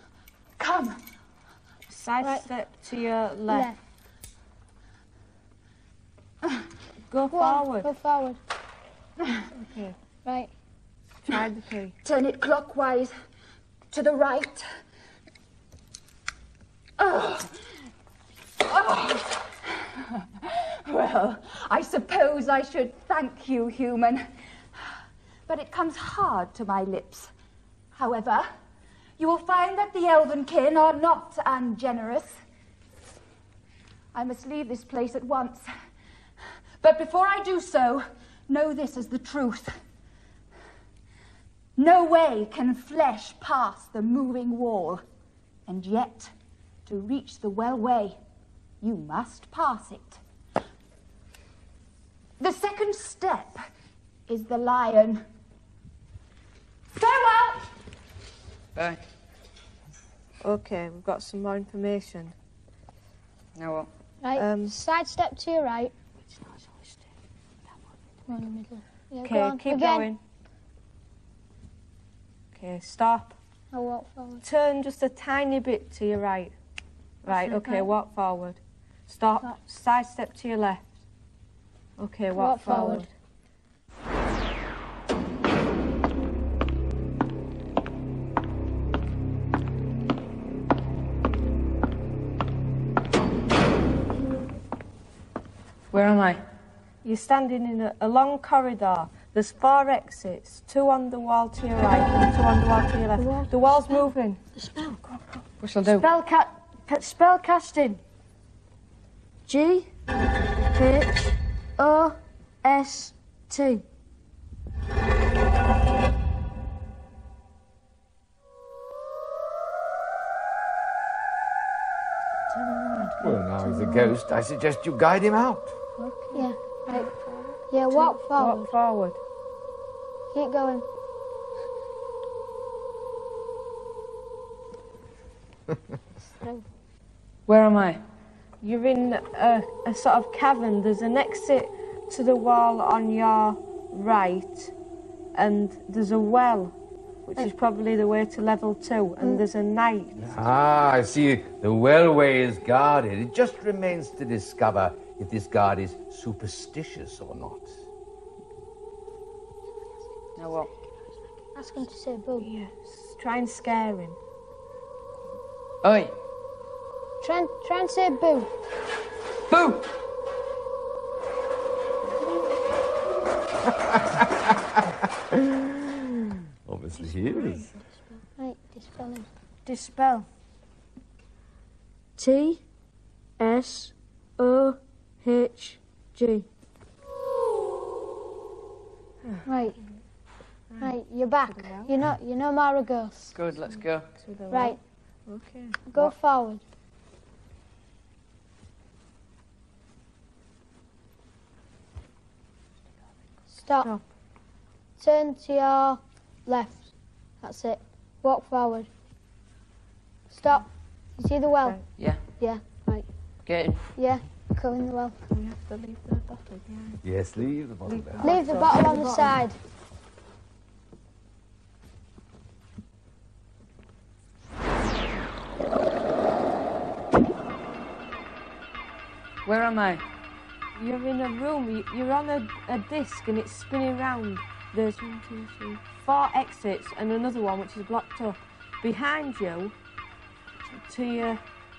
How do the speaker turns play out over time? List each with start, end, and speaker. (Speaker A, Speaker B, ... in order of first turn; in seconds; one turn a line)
Speaker A: 0.6-1.0
Speaker B: 1.9-3.7
Speaker C: 3.5-3.8
Speaker B: 7.1-7.9
Speaker C: 7.3-8.4
Speaker B: 9.5-9.9
Speaker C: 10.2-10.5
Speaker B: 11.3-11.9
Speaker A: 12.0-13.1
Speaker A: 13.9-14.7
Speaker A: 17.0-17.5
Speaker A: 18.6-19.6
Speaker A: 20.4-24.8
Speaker A: 25.5-27.3
Speaker A: 27.9-28.5
Speaker A: 29.2-32.4
Speaker A: 34.1-35.7
Speaker A: 36.8-39.8
Speaker A: 41.8-45.0
Speaker A: 45.7-46.3
Speaker A: 46.9-48.2
Speaker A: 48.8-50.2
Speaker A: 52.4-53.7
Speaker A: 54.3-55.2
Speaker A: 56.9-57.7
Speaker D: 58.7-59.0
Speaker B: 60.4-62.3
Speaker D: 63.5-63.9
Speaker C: 64.2-65.9
Speaker B: 64.3-64.7
Speaker C: 68.3-70.1
Speaker B: 69.2-70.2
Speaker B: 72.5-73.3
Speaker C: 73.7-74.4
Speaker B: 74.4-76.5
Speaker B: 77.2-80.9
Speaker C: 77.3-77.9
Speaker B: 82.0-83.1
Speaker C: 82.3-83.1
Speaker D: 95.9-96.4
Speaker B: 97.0-104.4
Speaker E: 104.5-105.0
Speaker D: 105.6-106.1
Speaker E: 105.8-108.0
Speaker E: 109.5-109.9
Speaker E: 110.7-113.8
Speaker C: 122.7-124.1
Speaker F: 123.2-125.7
Speaker C: 126.3-127.2
Speaker C: 127.7-128.7
Speaker B: 127.9-129.2
Speaker C: 130.3-130.8
Speaker D: 137.5-138.0
Speaker B: 138.6-144.7
Speaker B: 145.3-146.7
Speaker B: 147.2-150.2
Speaker F: 150.2-157.7
Speaker D: 160.3-160.7
Speaker C: 161.5-162.5
Speaker B: 162.4-164.2
Speaker D: 165.8-166.1
Speaker C: 167.2-168.5
Speaker D: 169.5-169.8
Speaker F: 175.5-175.9
Speaker F: 176.7-177.7
Speaker E: 176.9-177.6
Speaker C: 178.4-179.3
Speaker E: 179.7-180.3
Speaker E: 182.2-182.6
Speaker E: 183.4-186.4
Speaker B: 189.2-189.9
Speaker C: 189.4-189.8
Speaker B: 190.7-191.0
Speaker C: 190.8-193.3
Speaker B: 191.5-191.9
Speaker D: 193.3-194.1
Speaker B: 193.7-196.1
Speaker C: 194.5-194.8
Speaker C: 195.9-196.6
Speaker C: 203.5-203.9
Speaker C: 205.0-208.9
Speaker C: 210.3-213.1
Speaker D: 212.0-212.2
Speaker D: 213.4-213.8
Speaker C: 213.9-215.2
Speaker B: 215.3-217.0
Speaker F: 217.0-218.5
Speaker B: 217.9-219.4
Speaker C: 218.2-219.6
Speaker D: 229.4-230.0
Speaker B: 230.7-239.7
Speaker B: 240.8-241.4